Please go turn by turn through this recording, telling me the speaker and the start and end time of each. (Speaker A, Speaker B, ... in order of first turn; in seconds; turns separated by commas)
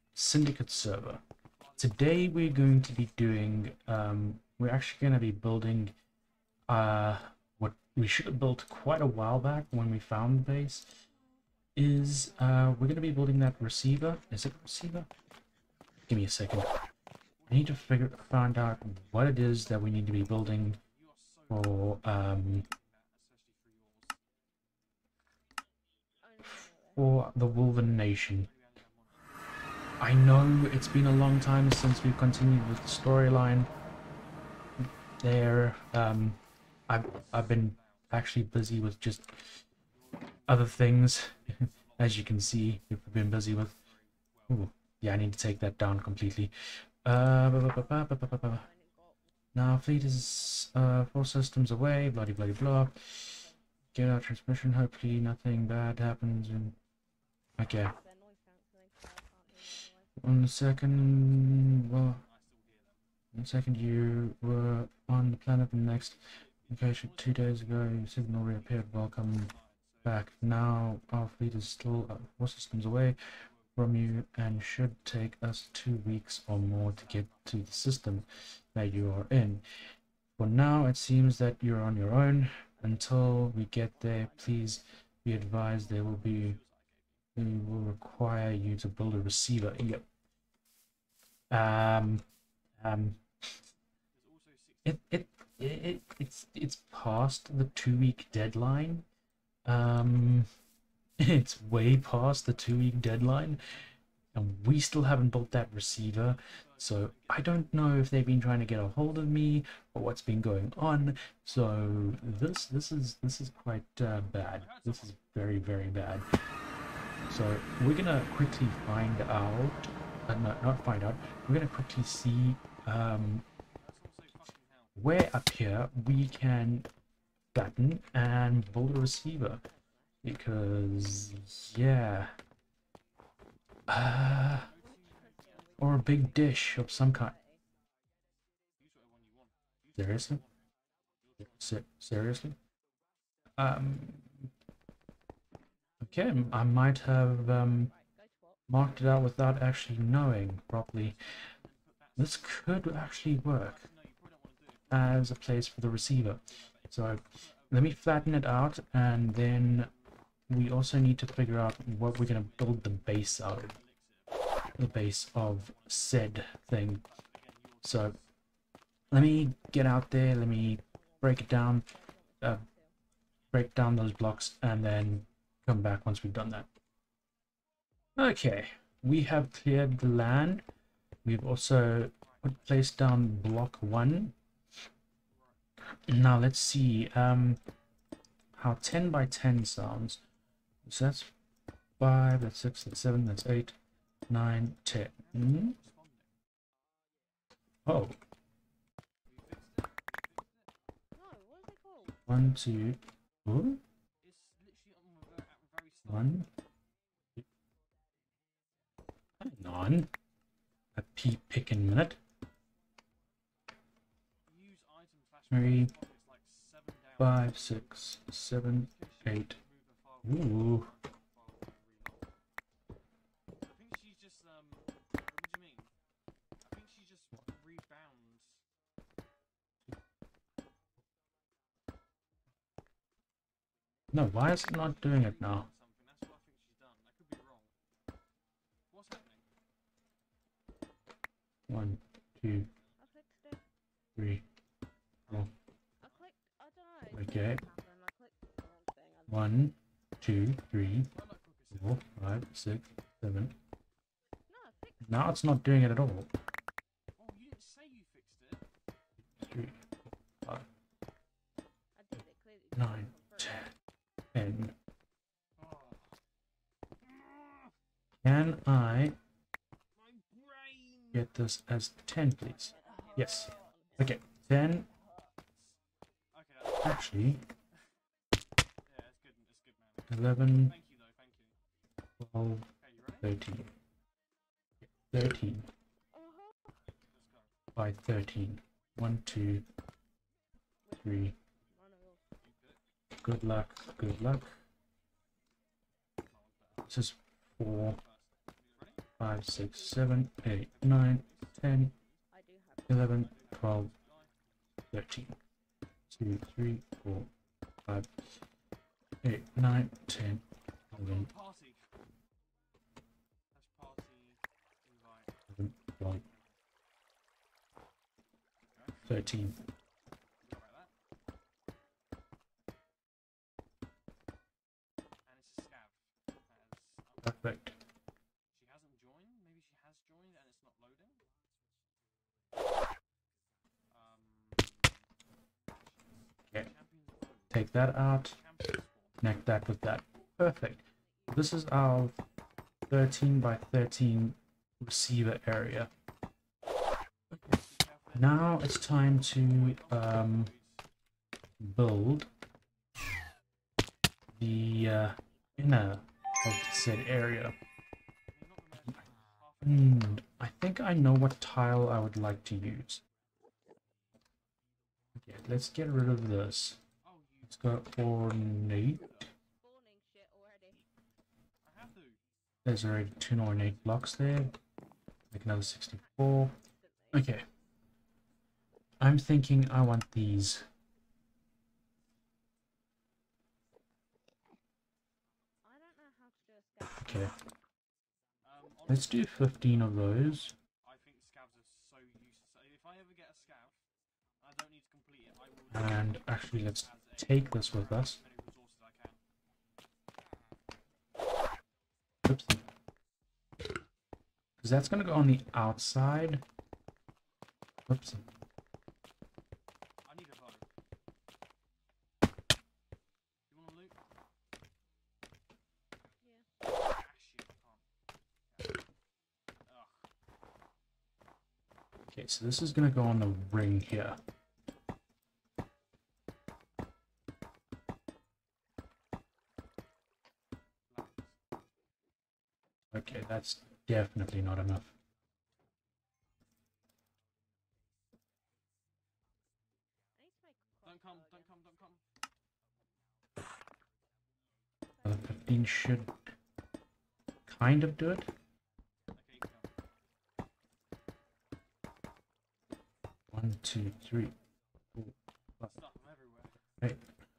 Speaker A: 0.1-1.2, Speaker B: 1.5-3.9, Speaker A: 1.8-5.9, Speaker A: 6.7-10.9, Speaker A: 11.8-15.1, Speaker C: 12.3-14.7, Speaker A: 16.1-16.8, Speaker B: 17.4-20.1, Speaker A: 17.5-20.8, Speaker B: 20.8-24.2, Speaker A: 21.5-22.6, Speaker C: 26.2-27.6, Speaker A: 26.4-28.5, Speaker B: 28.3-30.1, Speaker A: 30.0-33.7, Speaker B: 33.4-35.2, Speaker A: 35.2-39.5, Speaker B: 37.0-38.5, Speaker B: 39.9-44.7, Speaker A: 40.5-43.7, Speaker A: 44.5-46.5, Speaker A: 47.0-48.6, Speaker C: 47.6-51.2, Speaker A: 49.5-53.4, Speaker C: 53.1-53.6, Speaker A: 53.9-56.8, Speaker A: 57.6-57.9, Speaker C: 57.6-60.2, Speaker A: 60.2-62.2, Speaker B: 61.1-63.0, Speaker A: 63.3-69.5, Speaker B: 65.9-71.0, Speaker A: 70.0-73.2, Speaker B: 73.5-74.2, Speaker A: 73.8-79.7, Speaker B: 76.8-78.4, Speaker A: 80.4-86.6, Speaker C: 82.8-84.8, Speaker B: 85.4-87.3, Speaker A: 87.3-90.0, Speaker A: 91.5-92.2, Speaker A: 92.8-93.2, Speaker B: 94.1-95.6, Speaker A: 94.8-99.0, Speaker A: 99.7-100.5, Speaker A: 101.2-103.6, Speaker B: 102.6-103.1, Speaker A: 104.3-116.3, Speaker B: 106.1-108.4, Speaker B: 111.5-113.2, Speaker B: 114.4-116.2, Speaker A: 117.3-123.4, Speaker B: 123.8-125.0, Speaker A: 125.0-126.9, Speaker A: 127.5-129.6, Speaker C: 129.5-130.4, Speaker A: 130.2-132.3, Speaker A: 133.9-134.7, Speaker B: 134.5-136.3, Speaker C: 134.8-137.6, Speaker A: 135.8-137.3, Speaker B: 138.8-140.6, Speaker A: 140.0-140.4, Speaker B: 141.2-141.7, Speaker A: 141.4-142.6, Speaker A: 143.6-144.5, Speaker C: 146.0-148.9, Speaker A: 146.0-147.9, Speaker A: 148.7-151.2, Speaker B: 151.3-160.2, Speaker A: 152.2-153.9, Speaker A: 154.9-159.9, Speaker A: 160.5-163.8, Speaker B: 161.9-168.3, Speaker A: 164.8-167.0, Speaker A: 167.8-168.2, Speaker A: 169.1-171.9, Speaker C: 169.1-172.9, Speaker A: 173.5-176.7, Speaker A: 178.2-180.6, Speaker A: 181.2-184.3, Speaker B: 182.2-183.2, Speaker B: 185.3-185.6, Speaker A: 186.1-187.6, Speaker A: 188.6-190.2, Speaker A: 190.9-191.3, Speaker A: 192.0-193.8, Speaker A: 194.3-195.8, Speaker B: 195.2-196.3, Speaker A: 197.9-198.2, Speaker B: 199.3-200.8, Speaker C: 201.1-202.3, Speaker A: 202.3-203.8, Speaker B: 204.2-206.5, Speaker A: 206.1-206.5, Speaker A: 209.4-210.1, Speaker A: 210.9-212.2, Speaker B: 214.5-218.1, Speaker A: 215.5-215.9, Speaker A: 217.2-219.6, Speaker B: 218.7-222.4, Speaker A: 220.2-220.9, Speaker B: 223.6-225.9, Speaker B: 226.6-228.6, Speaker A: 234.1-235.7, Speaker B: 234.4-237.7, Speaker B: 238.9-239.5, Speaker A: 241.7-242.7, Speaker C: 243.0-243.6, Speaker A: 244.2-244.4, Speaker B: 245.3-245.5, Speaker C: 246.0-249.6, Speaker A: 247.1-247.6, Speaker A: 249.3-251.1, Speaker B: 251.1-252.1, Speaker A: 251.8-253.6, Speaker C: 254.5-255.4, Speaker A: 255.0-256.3, Speaker B: 257.2-258.6, Speaker A: 259.4-259.8, Speaker C: 262.0-263.7, Speaker A: 262.8-263.7, Speaker A: 264.3-264.8, Speaker B: 265.6-266.2, Speaker B: 267.0-267.7, Speaker A: 268.2-269.2, Speaker B: 270.0-271.3, Speaker A: 271.1-274.9, Speaker C: 272.5-274.2, Speaker B: 272.7-273.7, Speaker B: 276.3-277.4, Speaker A: 276.8-277.4, Speaker B: 278.9-281.6, Speaker A: 280.1-280.8, Speaker A: 282.2-282.7, Speaker B: 282.8-283.3, Speaker A: 283.2-283.7, Speaker A: 284.9-285.7, Speaker C: 286.1-286.8, Speaker B: 287.0-287.5, Speaker A: 287.8-289.6, Speaker C: 290.9-292.3, Speaker A: 290.9-291.4, Speaker B: 292.4-292.8, Speaker A: 293.2-294.5, Speaker B: 296.3-296.9, Speaker A: 296.9-298.0, Speaker B: 297.7-299.1, Speaker A: 299.2-301.9, Speaker C: 299.7-300.1, Speaker B: 300.4-302.2, Speaker C: 302.3-303.2, Speaker A: 302.9-303.9, Speaker B: 303.1-304.4, Speaker A: 304.9-305.4, Speaker A: 306.1-307.3, Speaker A: 309.2-311.3, Speaker B: 310.9-311.8, Speaker B: 313.5-316.6, Speaker A: 315.5-316.2, Speaker B: 318.6-319.2, Speaker A: 319.1-319.6, Speaker B: 320.4-320.9, Speaker B: 325.3-327.7, Speaker A: 327.2-327.8, Speaker B: 328.5-331.2, Speaker B: 333.9-335.0, Speaker B: 335.7-339.2, Speaker A: 337.5-338.4, Speaker A: 339.2-342.1, Speaker C: 341.0-341.6, Speaker A: 342.9-345.9, Speaker A: 347.3-347.6, Speaker B: 347.6-350.9, Speaker A: 348.1-350.5, Speaker A: 351.6-352.3, Speaker A: 354.4-357.6, Speaker B: 358.3-360.4, Speaker A: 359.6-363.0, Speaker A: 365.2-366.8, Speaker B: 367.0-368.1, Speaker A: 367.5-369.0, Speaker B: 368.7-369.3, Speaker C: 369.6-370.9, Speaker B: 371.6-372.2, Speaker A: 372.6-374.6, Speaker B: 373.5-374.3, Speaker A: 375.3-376.5, Speaker C: 375.9-377.4, Speaker A: 377.1-377.4, Speaker A: 379.0-380.6, Speaker C: 385.6-387.3, Speaker A: 387.0-387.3, Speaker B: 388.4-393.8, Speaker A: 388.9-390.5, Speaker B: 394.4-399.2, Speaker A: 395.7-398.2, Speaker A: 402.3-402.6, Speaker A: 404.6-406.4, Speaker A: 407.9-408.2, Speaker B: 410.1-410.7, Speaker B: 413.5-414.0, Speaker C: 416.2-416.5, Speaker B: 416.9-417.9, Speaker B: 419.7-420.0, Speaker A: 422.1-424.2, Speaker B: 430.9-431.4, Speaker A: 432.9-434.9, Speaker C: 440.1-441.8, Speaker B: 440.8-442.0, Speaker A: 445.0-446.1, Speaker A: 447.5-448.3, Speaker B: 449.1-449.7, Speaker A: 453.3-454.3, Speaker A: 455.0-455.7, Speaker B: 455.7-456.6